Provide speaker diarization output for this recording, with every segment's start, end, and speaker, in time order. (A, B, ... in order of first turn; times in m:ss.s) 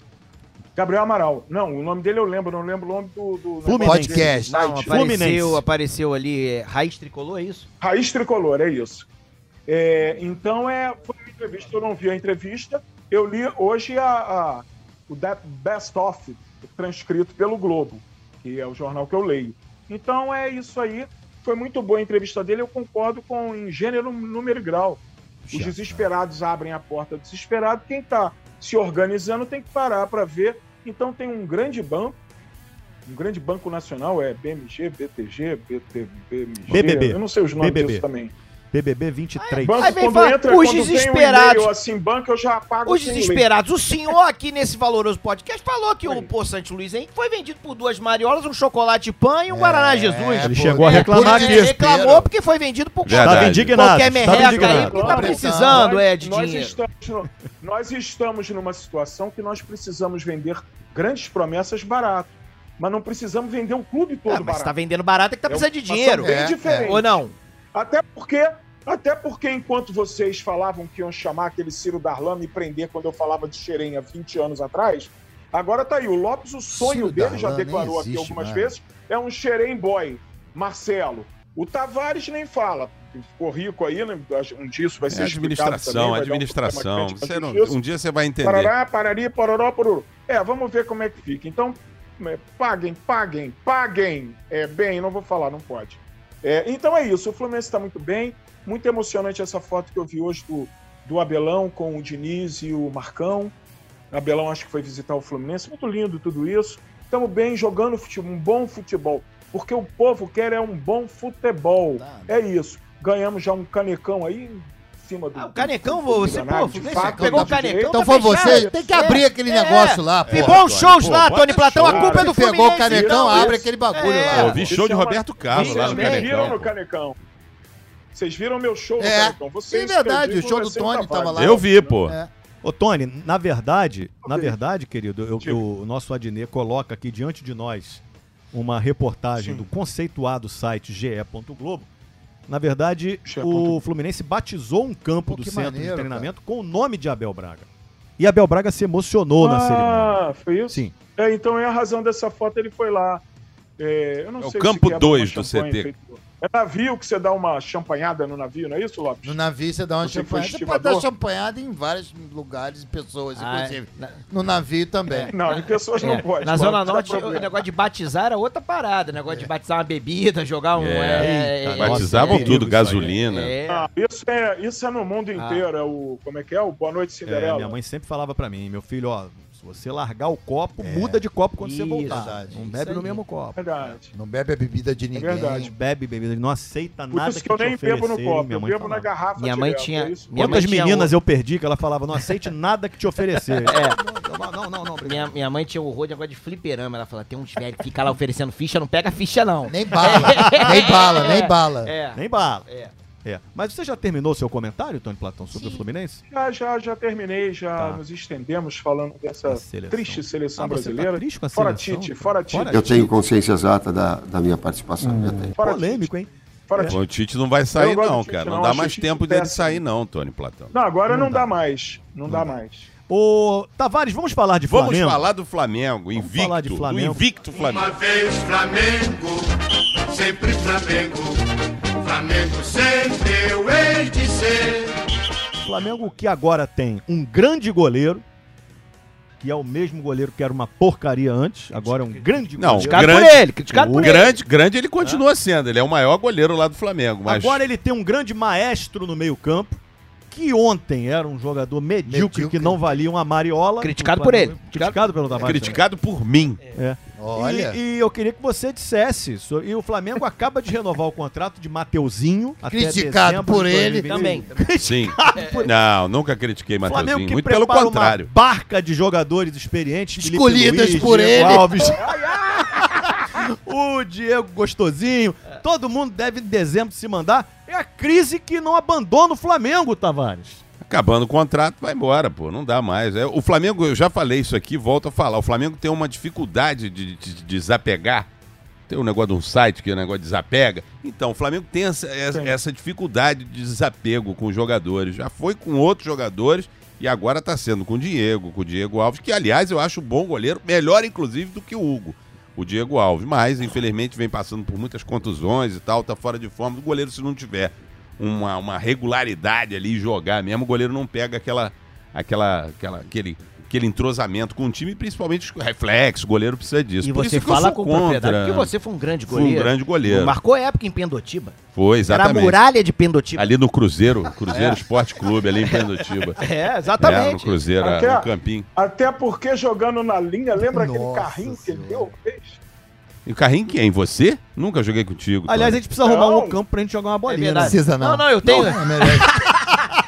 0:00.8-0:05.0 A
0:03.6-0:05.6 B
0:03.8-0:04.6 C
0:04.5-0:07.6 D
0:07.8-0:09.0 A
0:09.7-0:32.2 A
0:25.5-0:26.1 C
0:33.0-0:38.3 A
0:36.7-0:38.0 B
0:38.7-0:40.0 B
0:39.4-0:41.7 D
0:39.6-0:43.5 A
0:42.8-0:56.8 D
0:46.0-0:46.3 A
0:49.5-0:52.3 C
0:50.4-0:51.8 B
0:53.0-0:53.8 E
0:53.2-0:55.0 B
0:54.2-1:04.7 A
0:54.9-0:55.9 C
1:04.3-1:07.3 D
1:05.5-1:27.8 A
1:06.2-1:07.0 C
1:16.7-1:18.7 C
1:25.1-1:28.7 E
1:28.4-1:43.5 A
1:44.1-1:58.8 A
1:52.0-1:52.3 C
1:55.4-2:04.6 D
1:56.7-2:00.6 C
2:00.2-2:02.2 E
2:01.8-2:02.3 A
2:02.0-2:04.6 C
2:02.8-2:03.6 A
2:04.3-2:06.7 E
2:04.6-2:07.2 A
2:05.5-2:06.5 D
2:08.1-2:11.9 A
2:09.0-2:12.3 C
2:11.3-2:12.2 E
2:12.6-2:21.9 B
2:14.2-2:14.6 A
2:19.4-2:19.6 A
2:22.5-2:30.9 B
2:23.2-2:23.8 A
2:25.2-2:26.3 C
2:29.4-2:33.2 A
2:33.8-2:39.4 A
2:34.4-2:35.9 E
2:39.2-2:45.3 C
2:40.0-2:41.0 A
2:43.3-2:44.2 D
2:45.1-2:53.9 D
2:45.3-2:47.6 A
2:50.7-2:53.6 E
2:51.2-2:53.1 B
2:53.7-2:57.8 A
2:55.4-2:55.6 D
2:57.2-3:03.6 B
3:00.8-3:01.2 C
3:01.6-3:03.2 D
3:02.1-3:02.7 C
3:03.5-3:04.1 A
3:04.1-3:05.7 C
3:05.1-3:05.7 A
3:05.5-3:09.1 B
3:07.1-3:10.6 A
3:09.4-3:11.1 D
3:10.3-3:15.4 B
3:13.6-3:14.0 D
3:13.7-3:14.2 C
3:15.0-3:22.9 D
3:19.6-3:21.9 C
3:20.0-3:20.8 B
3:22.1-3:22.7 B
3:23.2-3:26.2 B
3:26.3-3:33.0 A
3:27.8-3:28.0 B
3:29.4-3:33.1 B
3:32.7-3:35.6 F
3:35.5-3:37.0 B
3:35.6-3:36.1 A
3:36.7-3:37.0 A
3:36.8-3:40.7 E
3:37.7-3:39.8 A
3:40.7-3:42.9 A
3:41.1-3:41.5 B
3:43.1-3:45.2 B
3:44.7-3:47.9 E
3:46.2-3:47.2 B
3:47.5-3:49.5 G
3:50.0-3:51.4 G
3:52.0-3:55.0 G
3:55.6-3:58.2 B
3:59.4-4:03.2 B
4:02.6-4:07.6 E
4:02.8-4:04.4 D
4:03.7-4:04.2 B
4:07.2-4:09.8 B
4:10.3-4:15.8 B
4:12.0-4:12.8 C
4:13.8-4:15.8 D
4:15.4-4:16.6 E
4:16.7-4:25.7 B
4:17.2-4:17.8 C
4:22.6-4:24.4 C
4:24.1-4:24.8 D
4:24.8-4:28.3 E
4:25.3-4:25.7 D
4:26.8-4:32.0 B
4:30.2-4:31.9 C
4:31.8-4:33.1 D
4:32.8-4:40.6 B
4:40.8-4:48.3 E
4:48.9-5:18.7 E
5:17.0-5:21.6 D
5:19.2-5:20.4 E
5:21.7-5:22.6 E
5:22.1-5:23.5 D
5:23.4-5:26.4 E
5:24.5-5:27.7 D
5:27.0-5:28.7 E
5:27.8-5:32.6 A
5:30.6-5:32.1 C
5:33.2-5:35.8 E
5:35.4-5:37.8 B
5:36.0-5:36.6 A
5:37.2-5:39.9 D
5:37.6-5:39.7 C